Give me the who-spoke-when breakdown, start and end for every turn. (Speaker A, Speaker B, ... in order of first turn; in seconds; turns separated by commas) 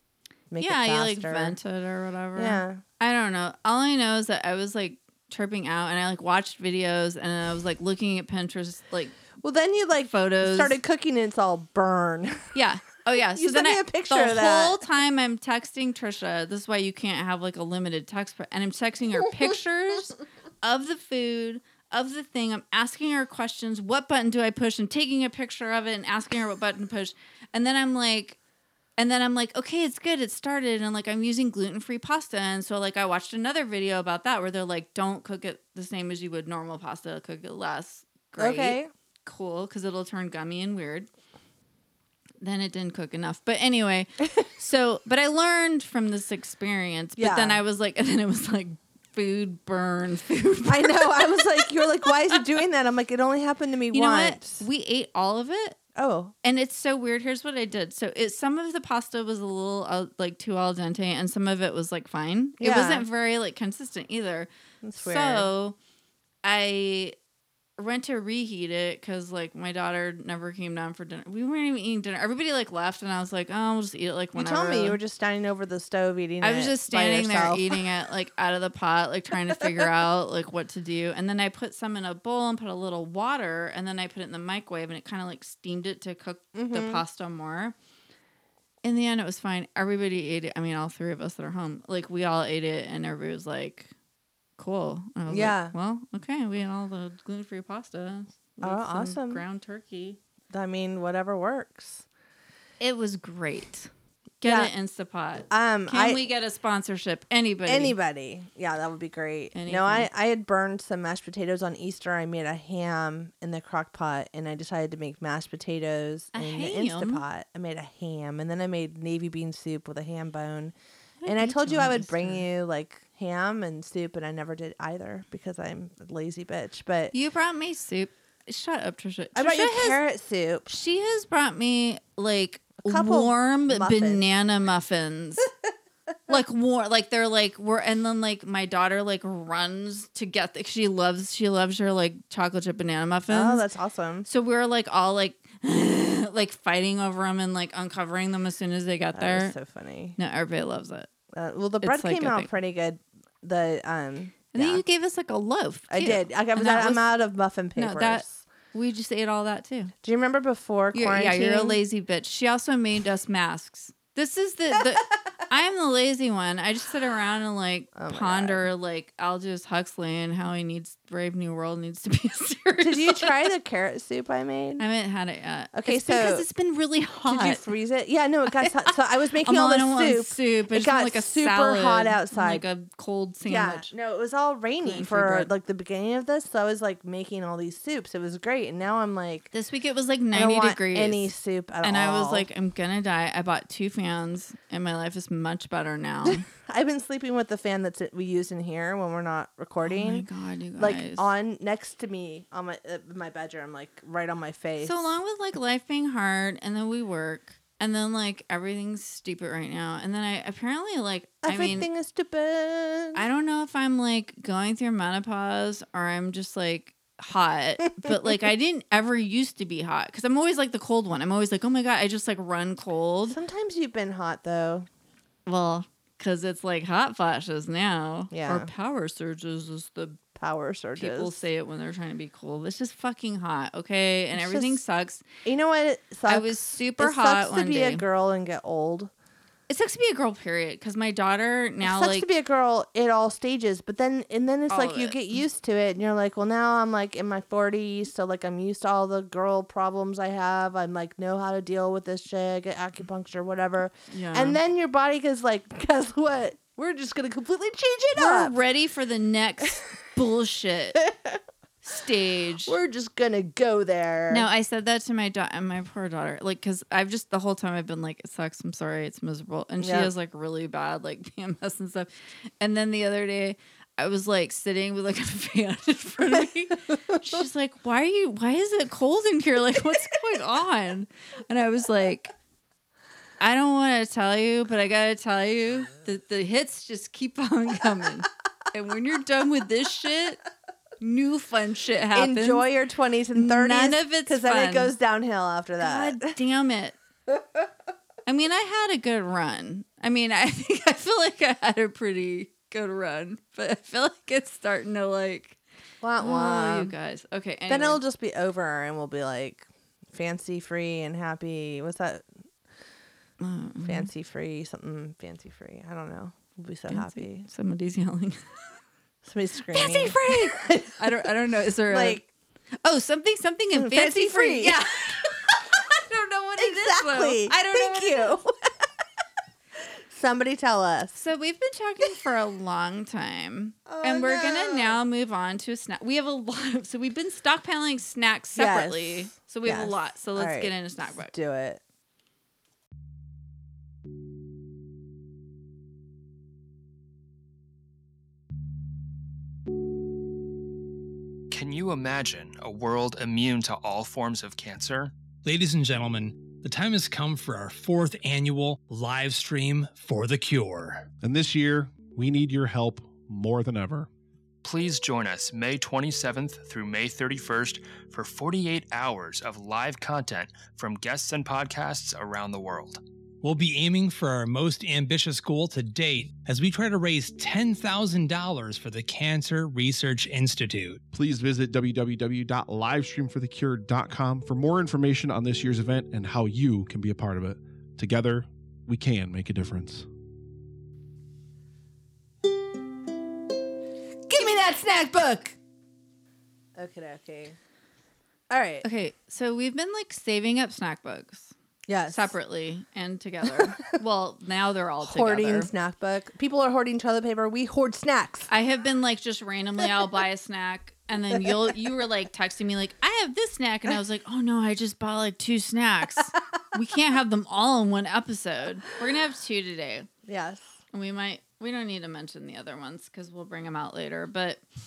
Speaker A: 0.5-1.6, Speaker B: 0.6-9.2, Speaker A: 2.4-2.8, Speaker A: 9.4-12.6, Speaker B: 10.0-10.8, Speaker B: 12.6-28.4, Speaker A: 13.3-14.8, Speaker B: 29.0-41.1, Speaker A: 38.4-38.9, Speaker B: 42.4-51.5, Speaker A: 47.2-47.6, Speaker A: 50.6-54.6, Speaker B: 53.9-55.8, Speaker A: 56.0-56.3, Speaker B: 56.4-65.8, Speaker A: 62.6-63.0, Speaker A: 64.8-65.5, Speaker B: 66.4-67.2, Speaker B: 67.8-75.0, Speaker A: 74.4-77.8, Speaker B: 76.4-87.8, Speaker A: 86.5-87.0, Speaker B: 88.8-93.9, Speaker B: 94.6-100.2, Speaker A: 95.3-95.7, Speaker A: 98.6-99.4, Speaker A: 100.5-102.1, Speaker B: 102.8-103.9, Speaker B: 104.4-108.0, Speaker A: 104.4-104.7, Speaker A: 105.5-106.2, Speaker A: 107.7-120.8, Speaker B: 109.5-110.1, Speaker B: 116.3-117.2, Speaker B: 121.2-122.5, Speaker A: 121.3-127.1, Speaker B: 127.1-130.0, Speaker A: 129.3-130.7, Speaker B: 130.7-135.5, Speaker A: 132.8-134.2, Speaker B: 136.3-143.6, Speaker A: 143.3-144.3, Speaker B: 144.2-149.6, Speaker A: 149.2-150.2, Speaker B: 150.2-151.1, Speaker A: 151.3-154.8, Speaker B: 151.8-152.5, Speaker B: 154.5-157.1, Speaker A: 155.9-158.4, Speaker B: 157.8-159.9, Speaker A: 160.0-161.8, Speaker B: 160.9-173.4, Speaker A: 167.9-168.7, Speaker A: 172.8-174.8, Speaker B: 174.8-177.7, Speaker A: 175.7-176.5, Speaker A: 177.3-182.6, Speaker B: 178.5-178.9, Speaker B: 179.4-183.9, Speaker A: 183.5-189.5, Speaker B: 184.8-185.5, Speaker B: 189.5-191.3, Speaker A: 190.3-192.5, Speaker B: 191.8-196.4, Speaker A: 196.2-200.3, Speaker B: 199.8-201.3, Speaker A: 200.8-205.2, Speaker B: 204.8-211.9, Speaker A: 211.4-213.2, Speaker B: 213.2-223.4, Speaker A: 218.0-218.3, Speaker A: 223.3-224.9, Speaker B: 225.5-230.2, Speaker A: 228.3-228.7, Speaker A: 230.3-231.4, Speaker B: 231.0-235.2, Speaker A: 234.3-234.8, Speaker A: 235.4-239.1, Speaker B: 236.3-238.0, Speaker B: 239.7-242.3, Speaker A: 241.8-258.6, Speaker B: 244.7-245.2, Speaker B: 254.1-254.6, Speaker B: 258.2-261.1, Speaker A: 261.1-261.4, Speaker B: 261.8-262.8, Speaker A: 262.6-264.5, Speaker B: 264.3-272.1, Speaker A: 269.8-270.1, Speaker B: 272.6-282.3, Speaker A: 276.3-277.2, Speaker B: 283.4-290.4, Speaker B: 291.0-292.7, Speaker A: 292.1-296.3, Speaker B: 293.4-294.9, Speaker B: 295.8-297.0, Speaker B: 298.3-305.6, Speaker A: 306.0-306.9, Speaker B: 306.2-308.0, Speaker A: 307.7-312.2, Speaker B: 313.4-314.1, Speaker A: 313.8-317.5, Speaker B: 316.9-318.4, Speaker A: 319.2-321.3, Speaker B: 319.7-322.2, Speaker A: 321.9-322.3, Speaker B: 322.8-328.4, Speaker A: 323.7-325.1, Speaker A: 326.6-328.5, Speaker A: 330.1-331.2, Speaker B: 331.1-341.3, Speaker A: 333.9-335.0, Speaker A: 338.5-341.8, Speaker C: 351.5-355.1, Speaker D: 355.4-361.1, Speaker E: 361.2-364.1, Speaker C: 364.6-373.0, Speaker D: 373.4-381.0, Speaker E: 381.1-390.1, Speaker A: 394.3-395.6, Speaker A: 396.8-397.6, Speaker A: 398.5-398.9, Speaker B: 398.8-401.5, Speaker A: 401.9-402.3, Speaker B: 402.1-405.7, Speaker A: 405.0-408.5, Speaker B: 408.5-420.1, Speaker A: 420.3-420.7, Speaker B: 420.9-424.6